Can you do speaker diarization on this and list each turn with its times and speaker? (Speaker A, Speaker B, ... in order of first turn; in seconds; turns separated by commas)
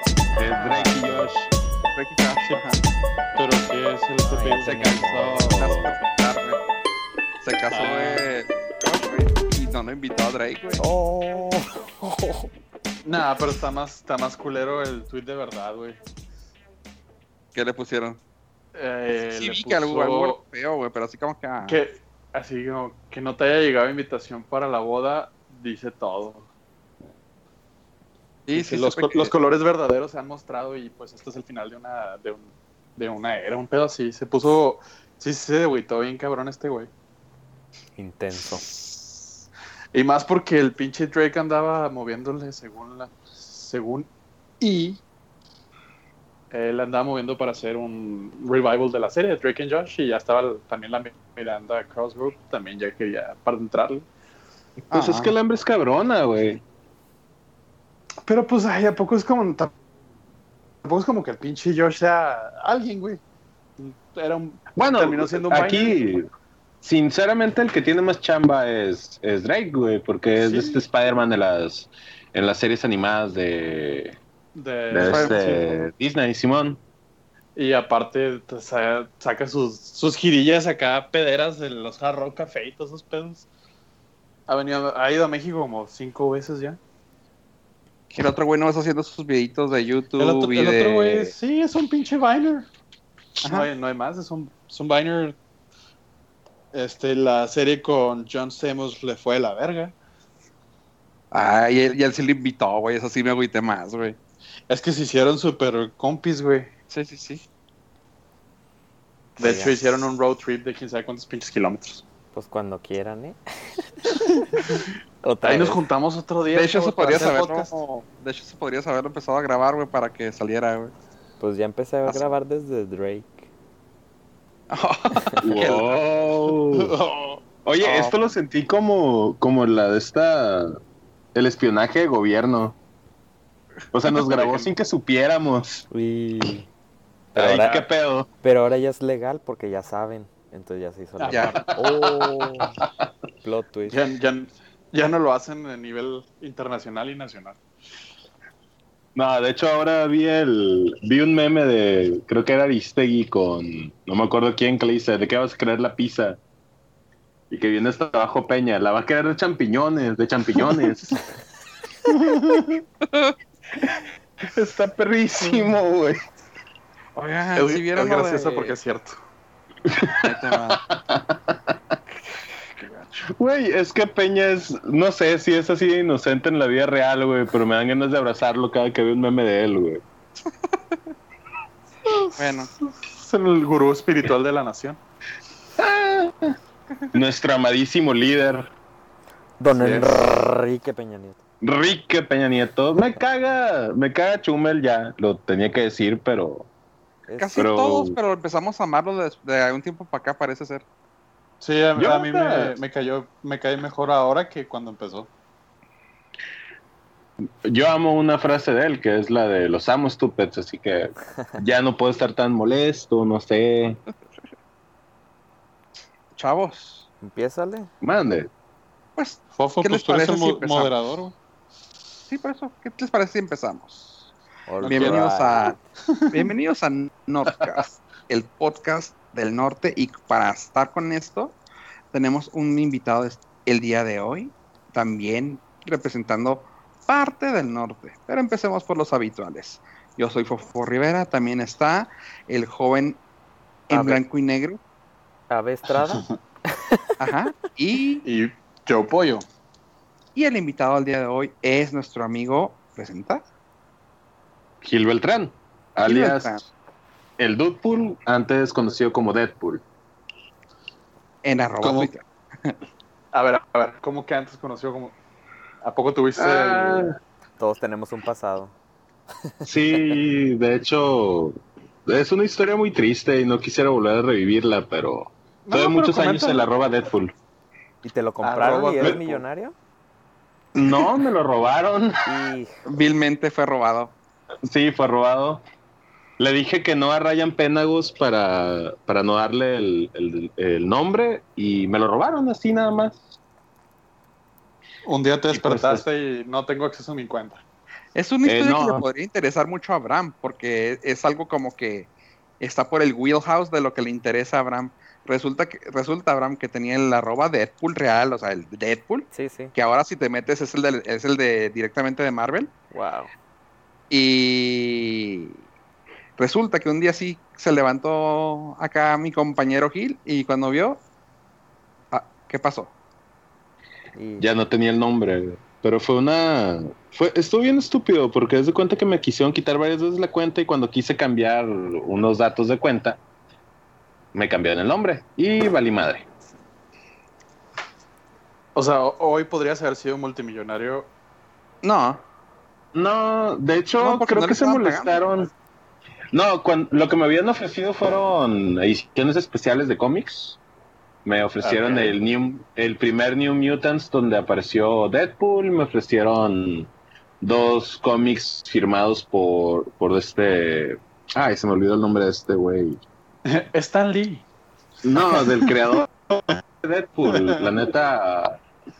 Speaker A: 0.3-1.5, Speaker B: 0.7-1.0, Speaker C: 1.9-2.8, Speaker D: 2.5-2.8, Speaker D: 3.4-5.6, Speaker B: 4.2-5.8, Speaker A: 5.5-5.9, Speaker C: 5.5-6.6, Speaker C: 7.4-10.8, Speaker D: 7.7-8.3, Speaker B: 10.8-12.5, Speaker D: 13.1-16.0, Speaker C: 17.5-18.2, Speaker D: 18.8-20.4, Speaker C: 19.4-21.8, Speaker D: 21.7-26.5, Speaker C: 28.5-29.3, Speaker D: 28.5-36.9, Speaker B: 38.0-38.7, Speaker D: 39.9-44.1, Speaker D: 44.6-45.0, Speaker D: 46.5-54.1, Speaker A: 54.9-56.6, Speaker C: 54.9-55.3, Speaker D: 58.2-59.7, Speaker D: 60.8-63.2, Speaker D: 63.8-66.0, Speaker A: 64.8-66.3, Speaker A: 66.8-74.2, Speaker D: 70.4-70.8, Speaker D: 74.5-75.6, Speaker A: 74.9-76.8, Speaker C: 75.1-75.4, Speaker D: 77.6-83.5, Speaker D: 84.5-86.8, Speaker C: 88.1-91.3, Speaker D: 90.2-92.7, Speaker C: 93.4-93.7, Speaker D: 93.4-95.4, Speaker D: 96.7-100.0, Speaker C: 101.3-104.2, Speaker D: 104.7-106.7, Speaker C: 106.9-107.4, Speaker D: 109.4-112.0, Speaker B: 109.4-110.1, Speaker B: 112.3-115.8, Speaker D: 114.5-114.8, Speaker D: 115.4-117.8, Speaker C: 116.5-120.9, Speaker B: 121.4-123.5, Speaker C: 124.7-126.0, Speaker A: 125.4-126.9, Speaker D: 126.7-127.4, Speaker A: 127.7-130.8, Speaker C: 127.8-128.2, Speaker A: 131.3-132.8, Speaker A: 133.9-135.9, Speaker D: 134.1-134.7, Speaker B: 135.9-136.7, Speaker B: 137.3-137.9, Speaker A: 137.3-138.3, Speaker B: 138.4-142.8, Speaker D: 141.2-141.6, Speaker C: 141.3-141.6, Speaker A: 141.9-142.9, Speaker B: 143.4-144.0, Speaker D: 143.9-147.6, Speaker A: 149.2-156.4, Speaker A: 157.5-161.2, Speaker D: 162.1-162.8, Speaker A: 164.4-166.2, Speaker C: 167.2-168.8, Speaker D: 167.6-169.2, Speaker A: 169.9-171.6, Speaker C: 170.2-170.8, Speaker D: 172.8-173.1, Speaker A: 173.4-180.0, Speaker D: 182.1-185.0, Speaker C: 182.3-182.7, Speaker A: 185.8-186.6, Speaker A: 187.1-188.7, Speaker B: 189.6-191.4, Speaker D: 189.7-190.2, Speaker A: 191.6-196.7, Speaker B: 197.3-197.6, Speaker C: 197.4-200.8, Speaker A: 197.6-198.2, Speaker D: 201.6-205.3, Speaker A: 202.0-202.8, Speaker A: 207.7-214.0, Speaker C: 216.4-217.1, Speaker B: 217.2-217.9, Speaker A: 218.0-218.5, Speaker C: 219.2-220.9, Speaker D: 219.6-221.3, Speaker C: 222.3-224.2, Speaker B: 224.7-225.7, Speaker D: 224.8-225.3, Speaker C: 224.8-225.8, Speaker C: 226.3-231.6, Speaker C: 232.1-243.2, Speaker C: 243.9-244.8, Speaker B: 243.9-244.2, Speaker B: 245.5-247.1, Speaker C: 247.2-248.2, Speaker D: 248.2-249.4, Speaker C: 250.3-253.4, Speaker A: 254.8-256.7, Speaker C: 256.1-256.6, Speaker A: 257.4-259.8, Speaker C: 261.4-262.7, Speaker D: 261.8-262.1, Speaker D: 263.3-265.1, Speaker D: 265.8-267.1, Speaker A: 266.4-267.2, Speaker B: 267.6-268.8, Speaker B: 269.4-270.1, Speaker A: 269.6-277.3, Speaker D: 275.7-276.6, Speaker C: 275.7-276.6, Speaker B: 278.0-279.8, Speaker D: 278.4-279.4, Speaker A: 280.8-282.4, Speaker B: 282.2-282.8, Speaker C: 282.9-284.1, Speaker A: 284.7-285.6, Speaker A: 286.4-293.2, Speaker D: 295.1-297.6, Speaker A: 295.5-296.0, Speaker C: 298.1-302.1, Speaker A: 298.4-299.0, Speaker C: 302.6-312.7, Speaker B: 309.3-309.7, Speaker B: 312.9-313.3, Speaker C: 314.1-315.6, Speaker C: 316.4-321.0, Speaker C: 322.1-322.9, Speaker B: 324.1-324.5, Speaker A: 324.4-333.2, Speaker A: 334.3-336.3, Speaker D: 338.8-341.1, Speaker C: 341.8-342.2, Speaker A: 342.9-345.5, Speaker C: 344.0-345.2, Speaker A: 346.3-350.6, Speaker A: 351.2-356.9, Speaker D: 351.6-352.1, Speaker A: 357.4-363.0, Speaker D: 363.5-364.4, Speaker A: 365.0-368.6, Speaker D: 365.3-365.9, Speaker D: 367.3-367.7